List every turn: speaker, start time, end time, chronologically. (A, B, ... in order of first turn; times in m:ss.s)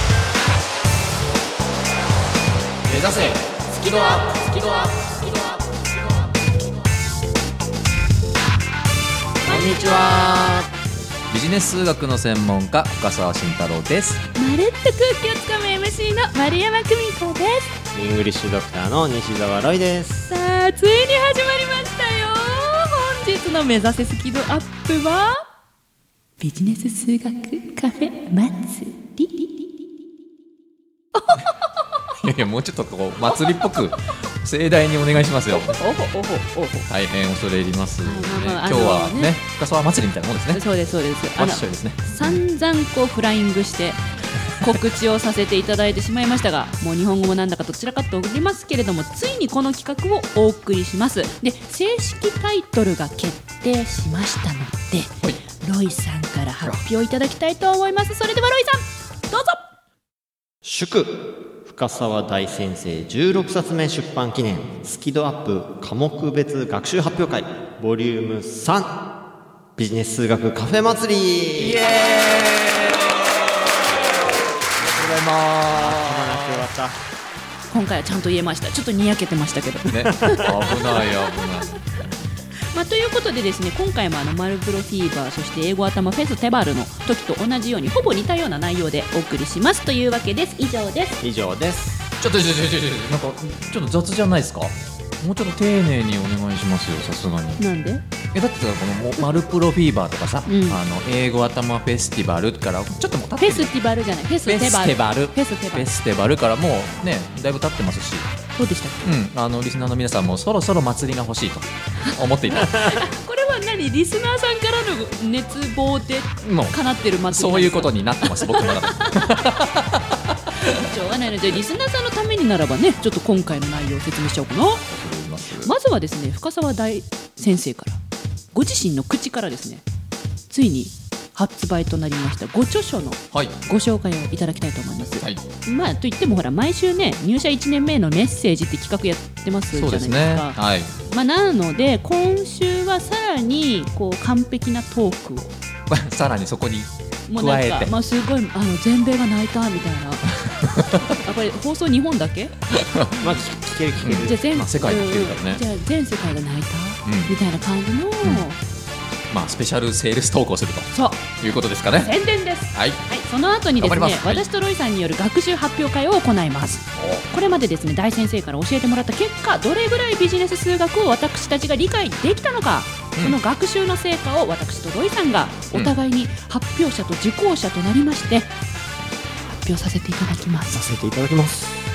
0:02.9-0:03.6 A
0:03.7-0:05.6 B
0:09.4-0:10.7 C
0:11.3-0:14.2 A
0:14.4-0:17.7 B
0:17.9-0:20.3 C
0:20.3-0:25.4 B
0:26.4-0:29.5 B
0:31.2-0:31.6 B
0:32.1-0:35.8 A
0:35.5-0:36.9 B
0:36.9-0:40.6 A
0:38.0-0:39.3 B
0:40.5-0:44.0 B
0:41.4-0:42.4 A
0:44.6-0:59.6 B
1:00.6-1:09.1 C
1:09.8-1:11.8 C
1:11.6-1:13.1 A
1:14.8-1:16.7 A
1:15.7-1:17.0 C
1:17.7-1:21.7 B
1:19.9-1:21.8 A
1:22.6-1:31.2 B
1:31.2-1:32.1 C
1:32.2-1:37.6 A
1:37.6-1:38.0 B
1:38.3-1:43.7 A
1:40.5-1:40.8 B
1:43.4-1:45.9 B
1:44.4-1:48.3 A
1:48.6-1:49.0 B
1:49.0-1:53.0 A
1:52.0-1:59.5 B
1:56.4-2:00.8 A
2:00.5-2:04.9 B
2:04.9-2:05.7 A
2:05.6-2:08.0 B
2:08.5-2:09.8 B
2:10.5-2:25.5 B
2:13.3-2:13.6 A
2:19.7-2:20.9 A
2:25.9-2:27.9 A
2:27.3-2:30.3 B
2:30.4-2:31.1 A
2:31.0-2:32.5 B
2:32.7-2:33.4 A
2:33.2-2:34.5 C
2:34.0-2:35.6 A
2:34.2-2:38.6 B
2:37.0-2:37.3 A
2:39.3-2:42.1 A
2:40.9-2:41.2 B
2:42.0-2:58.5 B
2:42.7-2:43.0 A
2:43.8-2:44.4 A
2:46.9-2:47.3 A
2:59.5-3:00.8 B
3:00.7-3:01.9 C